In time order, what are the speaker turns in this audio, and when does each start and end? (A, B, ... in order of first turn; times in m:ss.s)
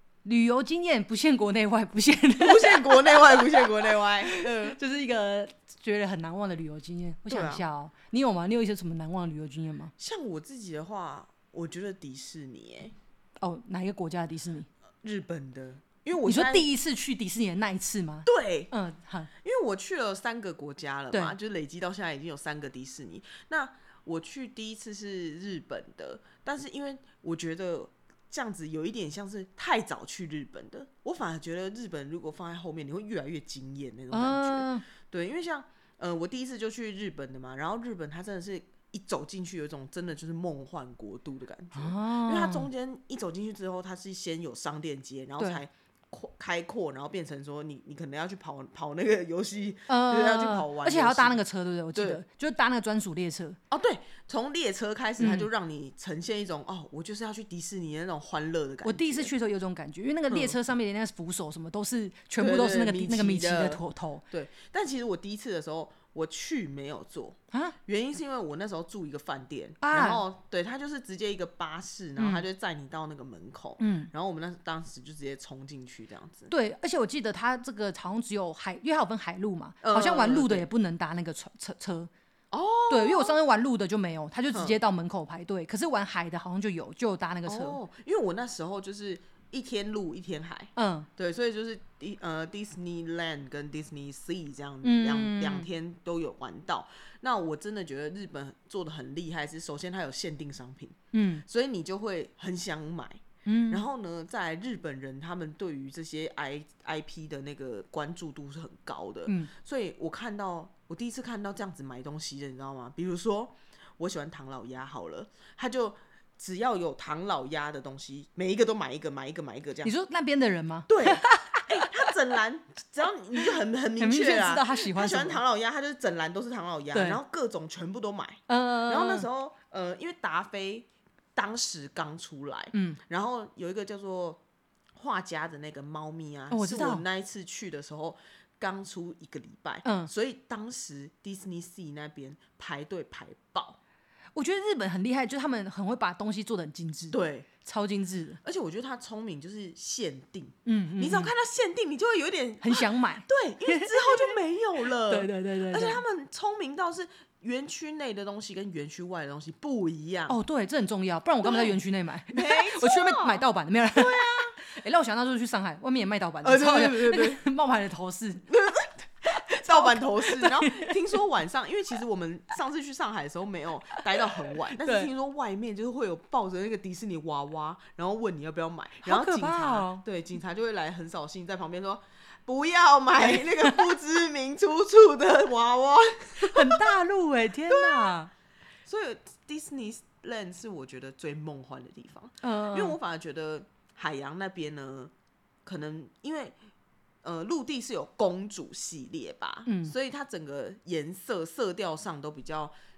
0:00.2-0:03.6 A
0:02.4-0:04.8 B
0:04.2-0:09.9 A
0:07.3-0:07.6 B
0:10.0-0:13.0 B
0:13.4-0:14.7 A
0:15.0-0:16.7 B
0:16.2-0:19.3 A
0:18.3-0:18.7 B
0:19.4-0:51.4 B
0:21.1-0:21.4 A
0:34.1-0:34.9 A
0:41.8-0:42.7 A
0:49.9-0:53.6 A
0:51.9-0:52.2 B
0:53.7-0:59.3 B
0:55.2-0:55.5 A
0:58.8-1:04.2 A
1:00.3-1:00.6 B
1:02.4-1:16.5 B
1:09.8-1:10.2 A
1:12.2-1:12.4 A
1:13.8-1:14.1 A
1:16.5-1:22.1 A
1:19.8-1:20.7 B
1:22.5-1:23.4 B
1:22.9-1:27.8 A
1:24.5-1:24.8 B
1:27.5-1:59.9 B
1:30.8-1:31.1 A
1:34.8-1:35.7 A
1:41.1-1:41.4 A
1:43.4-1:43.8 A
1:59.8-2:02.1 A
2:00.9-2:14.4 B
2:03.4-2:05.4 A
2:06.9-2:07.2 A
2:08.5-2:09.3 A
2:12.7-2:13.0 A
2:15.0-2:23.8 B
2:16.5-2:17.0 A
2:19.8-2:20.1 A
2:24.4-2:28.4 A
2:27.1-2:27.5 B
2:28.4-2:40.4 B
2:30.6-2:31.3 A
2:32.6-2:34.4 A
2:35.1-2:36.0 A
2:40.3-2:48.5 A
2:41.4-2:44.6 B
2:46.4-2:47.4 B
2:48.5-3:07.0 B
2:49.4-2:51.0 A
2:54.2-2:55.1 A
2:59.0-3:00.0 A
3:03.2-3:03.9 A
3:06.4-3:08.3 A
3:07.7-3:08.2 B
3:08.8-3:15.1 B
3:12.4-3:13.0 A
3:15.6-3:16.6 B
3:17.2-3:22.7 B
3:19.7-3:20.0 A